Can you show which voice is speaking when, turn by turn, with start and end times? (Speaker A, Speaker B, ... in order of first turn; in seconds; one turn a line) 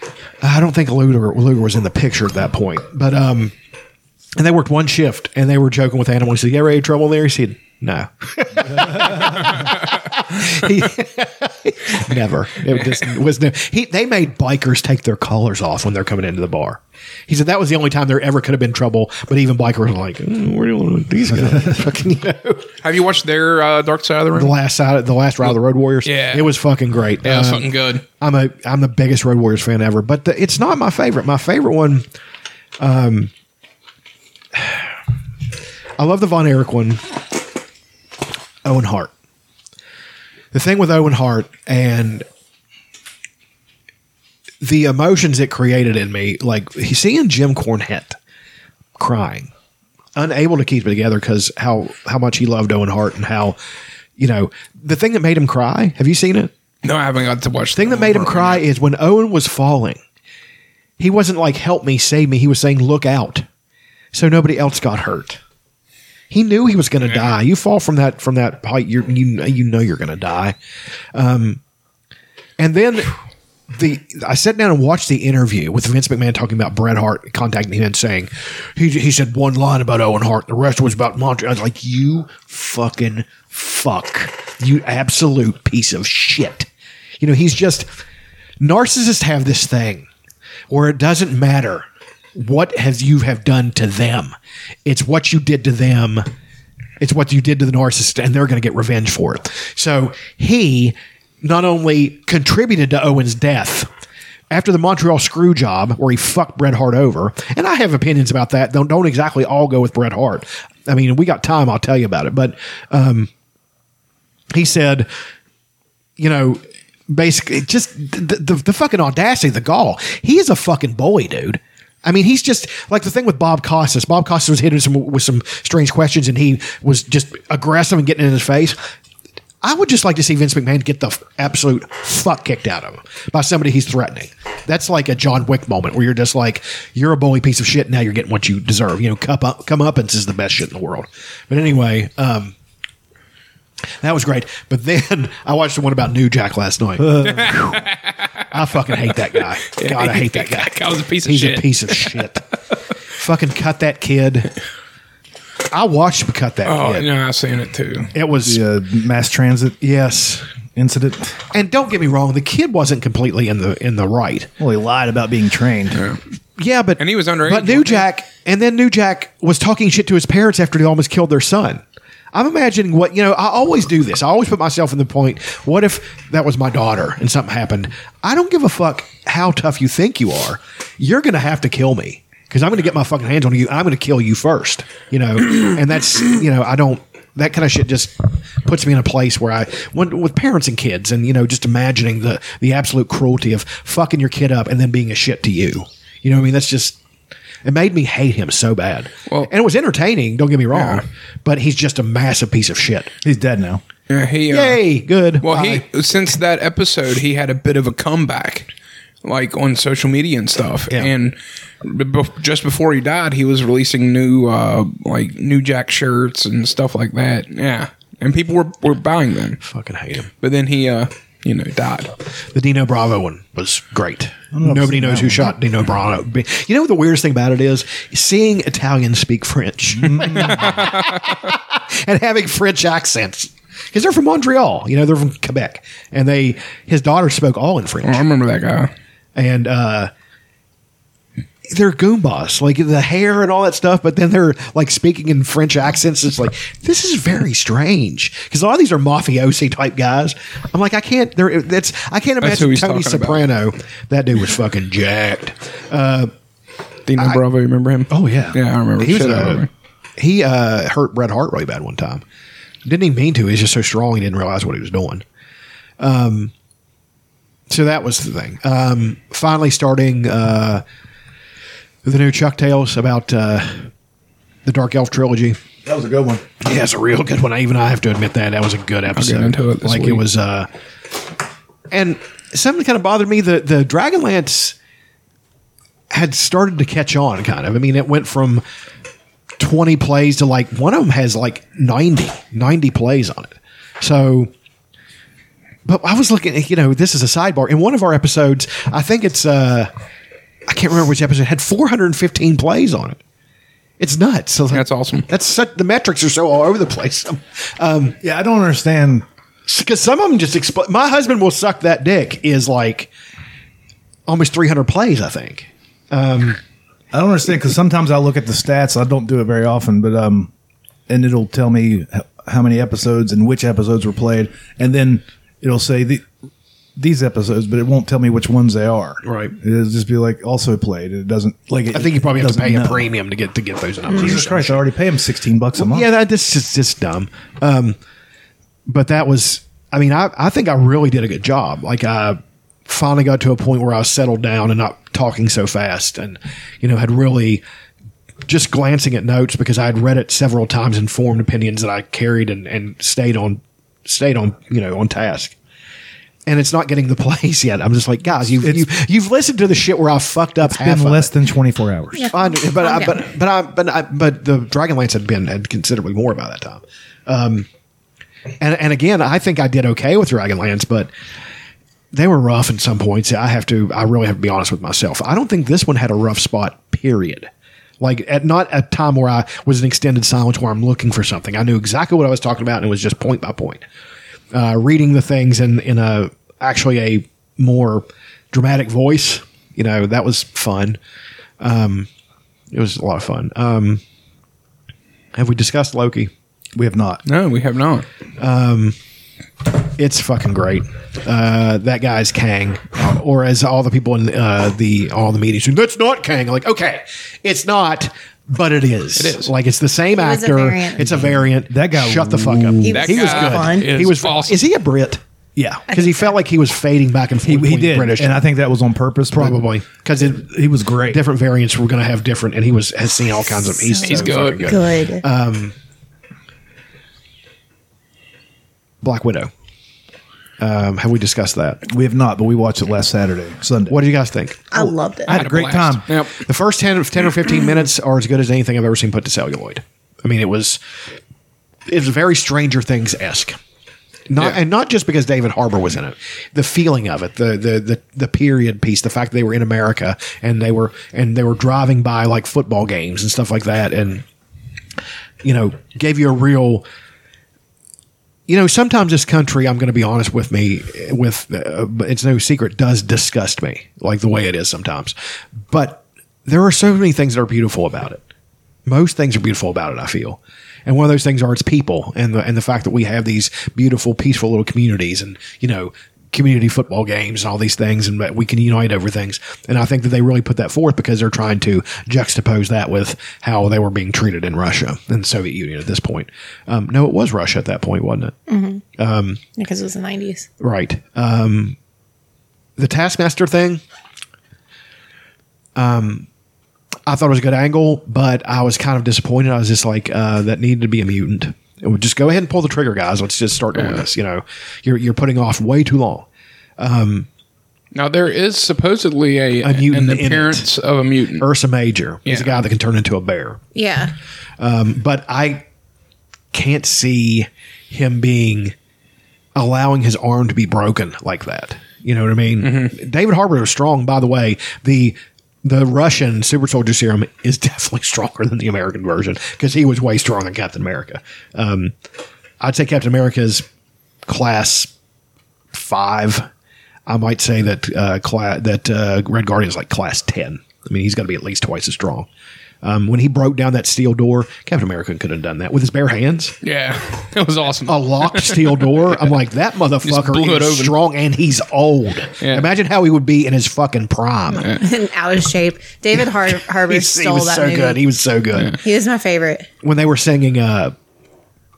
Speaker A: 0.4-3.5
Speaker A: 4.4-22.7
Speaker B: 21.5-21.7
Speaker C: 22.8-24.6
Speaker A: 24.3-32.1
Speaker C: 26.0-26.6
Speaker C: 27.2-28.0
Speaker A: 32.8-33.3
Speaker A: 34.5-34.9
Speaker A: 36.0-37.0
Speaker A: 38.6-39.1
Speaker A: 40.5-42.3
Speaker A: 44.6-48.2
Speaker A: 49.0-49.5
Speaker A: 50.1-53.6
Speaker A: 54.2-56.5
Speaker C: 56.8-58.6
Speaker A: 57.8-60.0
Speaker A: 61.0-63.5
Speaker A: 64.1-65.4
Speaker A: 66.3-70.6
Speaker A: 71.1-71.6
Speaker A: 72.6-73.1
Speaker A: 73.7-86.7
Speaker A: 87.2-87.9
Speaker A: 88.6-90.1
Speaker A: 90.7-96.3
Speaker A: 97.0-103.9
Speaker A: 104.5-113.3
Speaker A: 114.5-115.1
Speaker A: 116.2-128.8
Speaker A: 129.6-142.6
Speaker A: 144.0-147.8
Speaker B: 147.0-147.6
Speaker C: 147.3-148.1
Speaker A: 148.5-152.5
Speaker C: 149.7-152.2
Speaker A: 153.2-154.5
Speaker A: 155.7-157.1
Speaker C: 156.7-158.1
Speaker A: 158.1-158.6
Speaker B: 158.4-159.8
Speaker A: 159.8-160.4
Speaker B: 160.8-161.4
Speaker A: 161.5-164.5
Speaker B: 164.6-166.0
Speaker C: 165.9-166.2
Speaker A: 166.6-197.0
Speaker C: 167.0-168.1
Speaker A: 197.6-203.1
Speaker C: 200.7-201.0
Speaker B: 203.2-203.8
Speaker C: 204.1-204.8
Speaker A: 204.5-205.8
Speaker C: 205.4-208.7
Speaker C: 209.2-219.6
Speaker A: 219.6-220.3
Speaker C: 220.4-222.1
Speaker A: 222.5-238.2
Speaker B: 224.5-225.5
Speaker B: 230.0-230.7
Speaker C: 230.4-231.3
Speaker C: 238.0-238.9
Speaker A: 239.4-240.1
Speaker A: 241.7-256.3
Speaker C: 252.4-253.4
Speaker C: 257.1-259.7
Speaker A: 257.2-257.4
Speaker A: 258.1-259.7
Speaker A: 260.2-262.2
Speaker A: 262.9-265.2
Speaker A: 266.0-266.5
Speaker A: 267.7-270.8
Speaker A: 272.0-273.9
Speaker A: 274.6-275.6
Speaker B: 275.9-276.4
Speaker A: 276.6-280.7
Speaker C: 279.1-280.2
Speaker A: 281.9-284.8
Speaker A: 286.1-288.6
Speaker A: 289.6-294.5
Speaker A: 295.9-299.9
Speaker A: 300.7-303.2
Speaker A: 304.0-308.2
Speaker C: 304.7-305.3
Speaker B: 308.2-309.2
Speaker A: 309.7-313.1
Speaker A: 314.3-316.6
Speaker B: 317.1-320.5
Speaker B: 321.1-326.3
Speaker B: 327.0-333.1
Speaker A: 329.2-329.5
Speaker A: 331.9-334.9
Speaker B: 334.1-336.1
Speaker A: 335.8-338.0
Speaker A: 338.9-347.6
Speaker A: 348.5-355.6
Speaker A: 356.5-361.4
Speaker B: 358.5-358.9
Speaker B: 360.6-362.3
Speaker D: 362.1-363.2
Speaker A: 362.3-367.7
Speaker A: 368.6-371.1
Speaker A: 372.1-383.8
Speaker A: 384.5-391.0
Speaker A: 391.6-392.1
Speaker A: 392.7-394.0
Speaker A: 395.3-396.3
Speaker B: 396.8-397.2
Speaker C: 397.3-398.1
Speaker A: 398.4-399.0
Speaker A: 400.0-415.2
Speaker C: 409.2-409.5
Speaker D: 410.1-411.1
Speaker B: 411.1-412.9
Speaker D: 412.8-413.9
Speaker C: 412.9-414.6
Speaker B: 415.6-415.9
Speaker A: 415.9-418.5
Speaker D: 415.9-416.3
Speaker B: 417.4-419.8
Speaker A: 419.3-420.5
Speaker B: 420.4-421.2
Speaker A: 421.0-425.8
Speaker D: 423.7-425.2
Speaker C: 424.0-424.8
Speaker A: 429.0-429.5
Speaker A: 430.6-431.8
Speaker B: 431.9-434.0
Speaker A: 433.9-434.9
Speaker D: 434.7-435.3
Speaker B: 434.8-436.1
Speaker C: 435.3-436.4
Speaker A: 436.4-440.8
Speaker A: 441.9-443.6
Speaker A: 444.3-454.2
Speaker A: 455.4-456.9
Speaker A: 458.5-465.1
Speaker A: 465.7-468.2
Speaker A: 468.9-488.4
Speaker D: 488.5-488.8
Speaker A: 489.0-489.4
Speaker D: 489.6-490.5
Speaker A: 490.6-491.8
Speaker A: 492.8-493.8
Speaker A: 495.8-496.3
Speaker A: 497.1-506.3
Speaker C: 503.8-504.1
Speaker A: 506.8-507.3
Speaker C: 507.9-511.5
Speaker A: 509.6-510.7
Speaker A: 511.4-513.6
Speaker C: 512.3-512.6
Speaker D: 513.8-514.1
Speaker A: 514.6-515.6
Speaker A: 516.5-518.8
Speaker A: 519.5-532.0
Speaker C: 522.6-523.0
Speaker A: 532.6-533.6
Speaker A: 534.3-534.9
Speaker A: 535.7-536.5
Speaker A: 537.1-542.3
Speaker A: 542.8-546.6
Speaker C: 546.6-549.3
Speaker A: 547.9-554.8
Speaker C: 550.0-551.0
Speaker C: 552.4-552.7
Speaker C: 554.6-554.8
Speaker D: 554.8-558.0
Speaker A: 556.1-558.8
Speaker D: 558.8-559.7
Speaker A: 559.8-561.0